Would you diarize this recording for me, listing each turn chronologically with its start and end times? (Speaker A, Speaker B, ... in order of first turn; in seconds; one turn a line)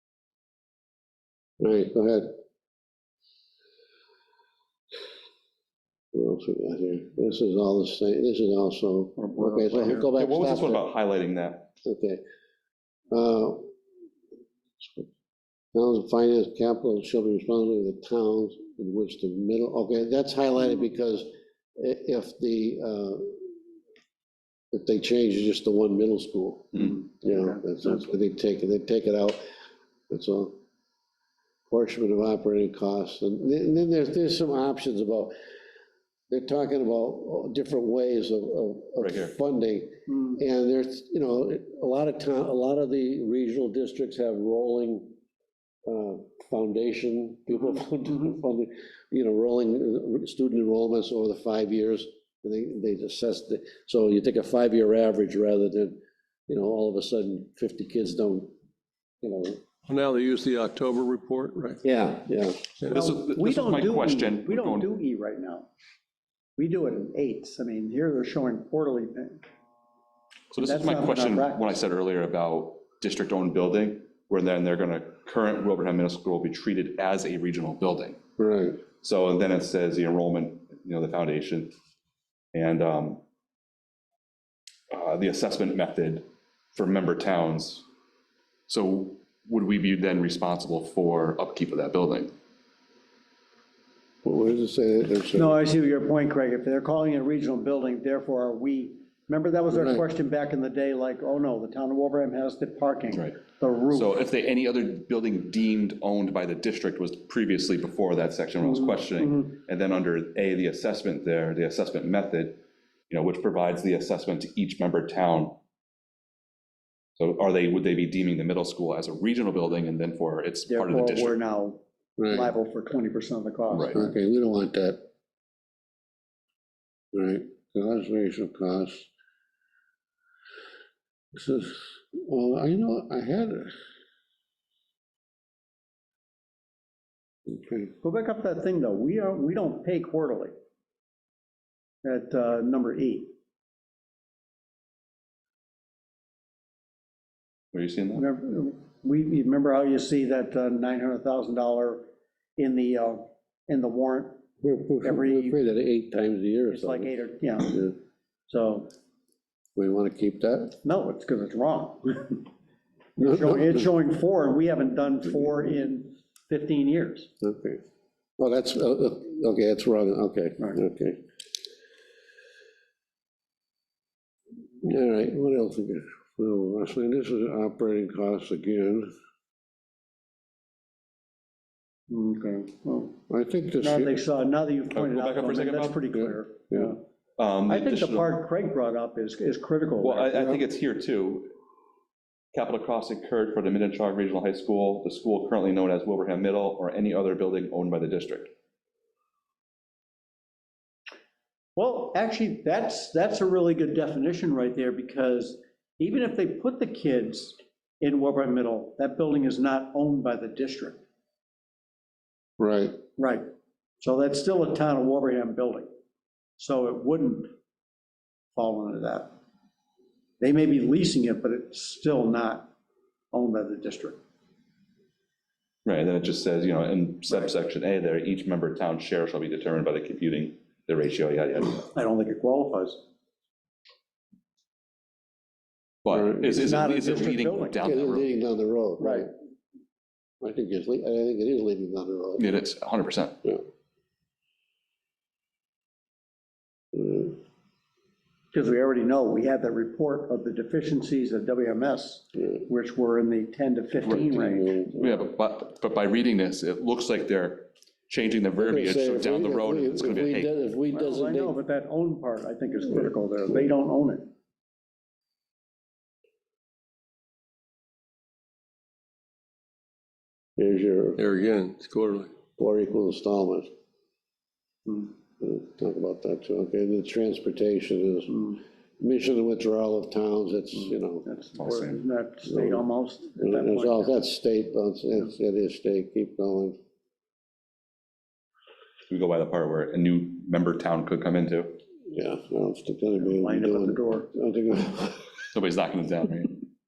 Speaker A: 1.6-2.3
Speaker A: 6.1-10.8
Speaker B: 9.2-10.1
Speaker C: 10.0-11.7
Speaker A: 11.8-12.2
Speaker A: 13.1-13.7
Speaker A: 14.8-15.0
Speaker A: 15.7-23.5
Speaker A: 24.7-29.4
Speaker B: 27.2-27.6
Speaker A: 30.1-30.5
Speaker A: 31.7-35.3
Speaker A: 36.3-45.1
Speaker C: 39.0-39.3
Speaker B: 40.1-40.4
Speaker A: 45.9-56.0
Speaker A: 56.5-58.5
Speaker A: 59.2-59.6
Speaker D: 59.9-61.8
Speaker A: 61.8-62.8
Speaker C: 62.9-64.9
Speaker B: 62.9-65.7
Speaker B: 66.6-69.4
Speaker C: 70.5-78.2
Speaker B: 70.6-71.8
Speaker A: 78.4-78.8
Speaker C: 79.0-81.7
Speaker C: 82.5-83.2
Speaker C: 84.9-87.8
Speaker C: 88.7-92.3
Speaker A: 94.2-95.6
Speaker B: 95.3-104.1
Speaker A: 99.7-100.0
Speaker C: 103.9-115.6
Speaker B: 108.6-109.5
Speaker C: 117.2-121.4
Speaker B: 120.7-124.1
Speaker A: 122.2-122.5
Speaker A: 123.9-125.0
Speaker A: 127.1-129.1
Speaker A: 131.3-133.7
Speaker A: 137.5-137.9
Speaker B: 138.0-140.5
Speaker B: 142.0-143.3
Speaker C: 147.7-148.2
Speaker B: 148.1-154.4
Speaker A: 154.6-157.9
Speaker B: 155.0-155.6
Speaker B: 156.7-157.8
Speaker B: 158.5-158.9
Speaker A: 159.8-160.8
Speaker B: 160.8-162.4
Speaker A: 163.2-163.8
Speaker B: 163.2-167.3
Speaker A: 167.4-167.8
Speaker A: 168.4-171.2
Speaker A: 174.8-179.1
Speaker B: 182.1-183.2
Speaker A: 183.3-184.2
Speaker B: 183.8-187.0
Speaker C: 184.9-186.0
Speaker C: 187.4-188.3
Speaker B: 187.7-190.6
Speaker C: 190.0-191.5
Speaker C: 192.5-198.5
Speaker B: 201.8-211.0
Speaker A: 212.6-213.0
Speaker B: 213.2-213.4
Speaker B: 214.0-215.9
Speaker B: 216.6-217.5
Speaker B: 218.5-219.3
Speaker B: 220.4-222.7
Speaker B: 223.3-224.2
Speaker C: 225.8-231.9
Speaker B: 231.9-233.0
Speaker C: 236.0-238.2
Speaker B: 236.4-237.8
Speaker A: 237.8-239.3
Speaker B: 239.0-239.3
Speaker A: 240.4-242.5
Speaker C: 242.4-243.4
Speaker A: 246.9-247.4
Speaker B: 248.5-254.8
Speaker A: 254.0-255.2
Speaker C: 255.0-260.5
Speaker A: 258.6-261.6
Speaker B: 260.9-264.3
Speaker A: 270.6-271.2
Speaker D: 271.2-272.3
Speaker A: 272.6-273.7
Speaker A: 275.4-281.2
Speaker B: 280.7-284.1
Speaker C: 281.6-282.0
Speaker A: 282.4-282.8
Speaker A: 283.4-286.8
Speaker C: 289.1-291.8
Speaker A: 292.1-295.2
Speaker B: 293.2-294.3
Speaker C: 295.5-296.6